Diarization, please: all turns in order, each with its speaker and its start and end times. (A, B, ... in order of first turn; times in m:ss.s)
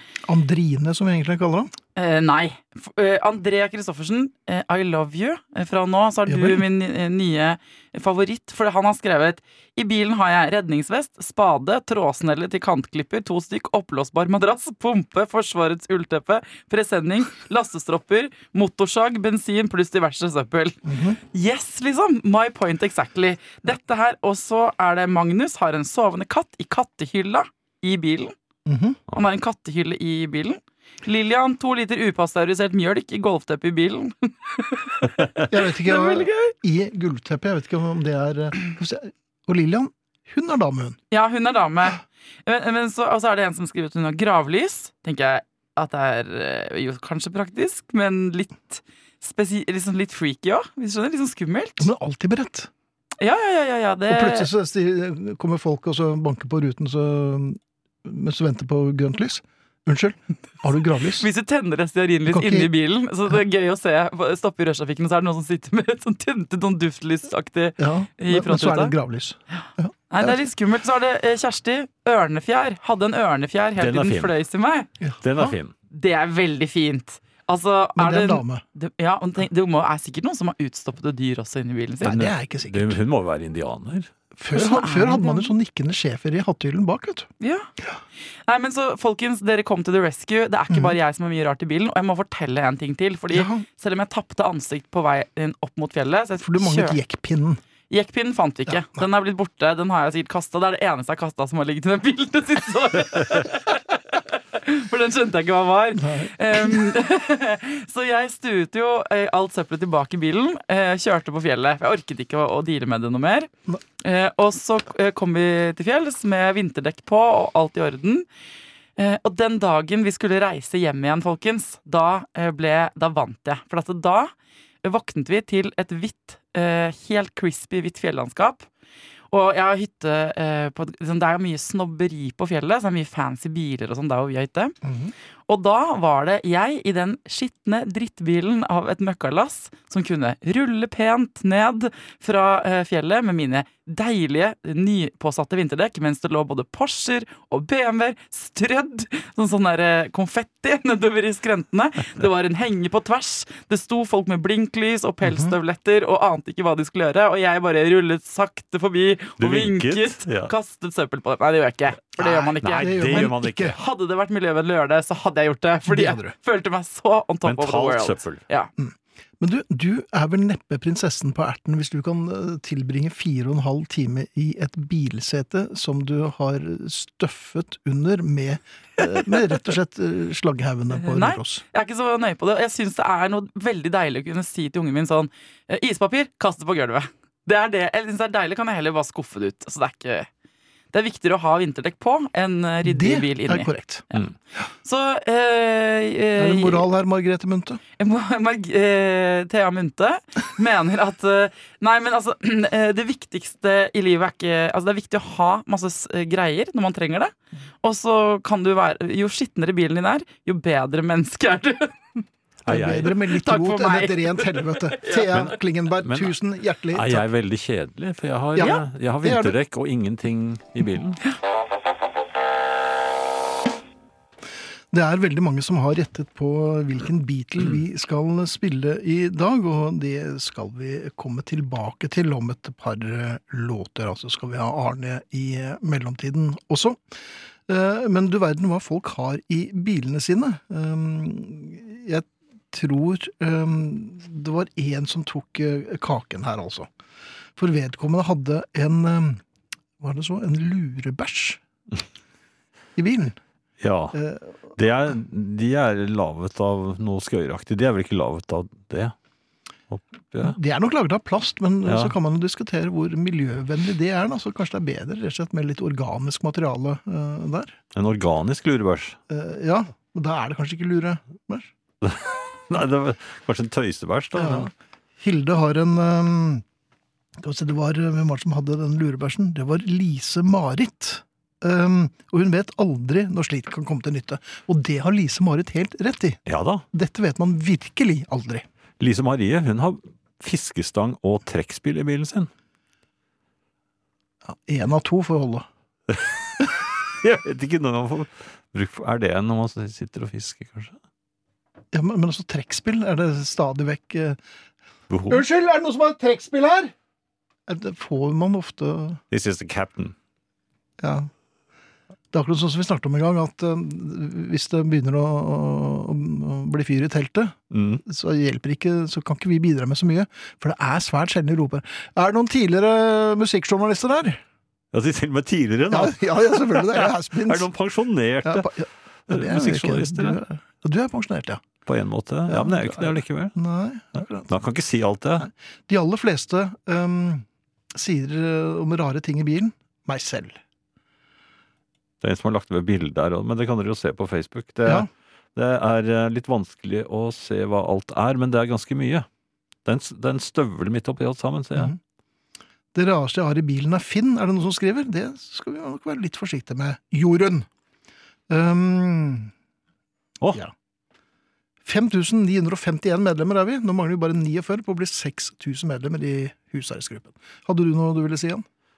0:00.2-0:01.7 A
0:02.0-0:28.3 B
0:06.3-0:06.6 A
0:20.8-0:21.2 A
0:28.6-0:29.0 A
0:29.1-0:36.5 B
0:35.5-0:41.0 A
0:41.1-0:51.9 B
0:51.8-0:52.7 A
0:53.2-0:54.5 B
0:54.1-1:01.2 A
1:01.2-1:08.9 B
1:02.3-1:02.7 A
1:07.8-1:10.4 A
1:10.1-1:14.9 B
1:13.8-1:14.3 C
1:15.0-1:15.5 A
1:15.2-1:15.7 C
1:15.9-1:22.3 B
1:18.0-1:18.6 A
1:22.0-1:23.0 A
1:22.1-1:24.1 C
1:24.4-1:27.3 A
1:24.5-1:25.5 B
1:27.4-1:27.7 B
1:28.5-1:37.0 B
1:30.7-1:31.0 A
1:33.3-1:33.6 A
1:36.4-1:37.6 A
1:37.9-1:58.2 B
1:46.0-1:46.9 A
1:59.0-2:04.3 B
2:04.8-2:08.7 B
2:09.3-2:14.8 B
2:14.8-2:15.1 A
2:15.5-2:48.7 B
2:35.2-2:35.6 A
2:39.4-2:40.5 C
2:42.2-2:43.8 A
2:42.6-2:43.8 C
2:45.9-2:46.3 A
2:47.4-2:48.4 C
2:48.8-3:01.6 A
3:00.9-3:10.3 B
3:10.9-3:14.3 B
3:12.8-3:14.0 A
3:14.8-3:16.9 B
3:16.4-3:17.8 A
3:18.0-3:32.0 B
3:32.6-3:33.2 C
3:32.7-3:37.2 A
3:33.1-3:35.3 B
3:35.3-3:36.3 C
3:36.9-3:41.2 C
3:38.5-3:39.6 A
3:44.9-4:06.9 A
4:07.6-4:09.4 A
4:10.0-4:11.6 A
4:13.0-4:13.4 A
4:13.8-4:14.2 C
4:14.1-4:14.5 A
4:14.8-4:19.1 C
4:19.9-4:20.6 C
4:20.4-4:27.7 A
4:21.8-4:22.1 C
4:27.9-4:29.2 C
4:29.3-4:31.7 A
4:32.0-4:34.7 C
4:34.3-4:36.6 A
4:37.4-4:46.4 A
4:46.5-4:46.8 C
4:46.9-4:48.6 A
4:49.0-4:52.5 C
4:54.4-4:55.7 A
4:56.1-5:01.0 C
5:01.9-5:04.4 A
5:05.1-5:05.4 C
5:05.3-5:06.9 A
5:07.7-5:09.2 A
5:09.3-5:10.1 C
5:11.0-5:11.3 A
5:12.3-5:24.4 A
5:17.7-5:18.0 C
5:24.9-5:30.4 C
5:25.9-5:27.7 A
5:28.4-5:31.6 A
5:31.8-5:33.6 C
5:32.5-5:34.5 A
5:34.4-5:35.5 C
5:35.4-5:40.6 A
5:42.2-5:49.2 C
5:49.8-5:51.9 C
5:52.9-5:57.7 A
5:58.5-5:59.5 A
6:01.8-6:08.6 A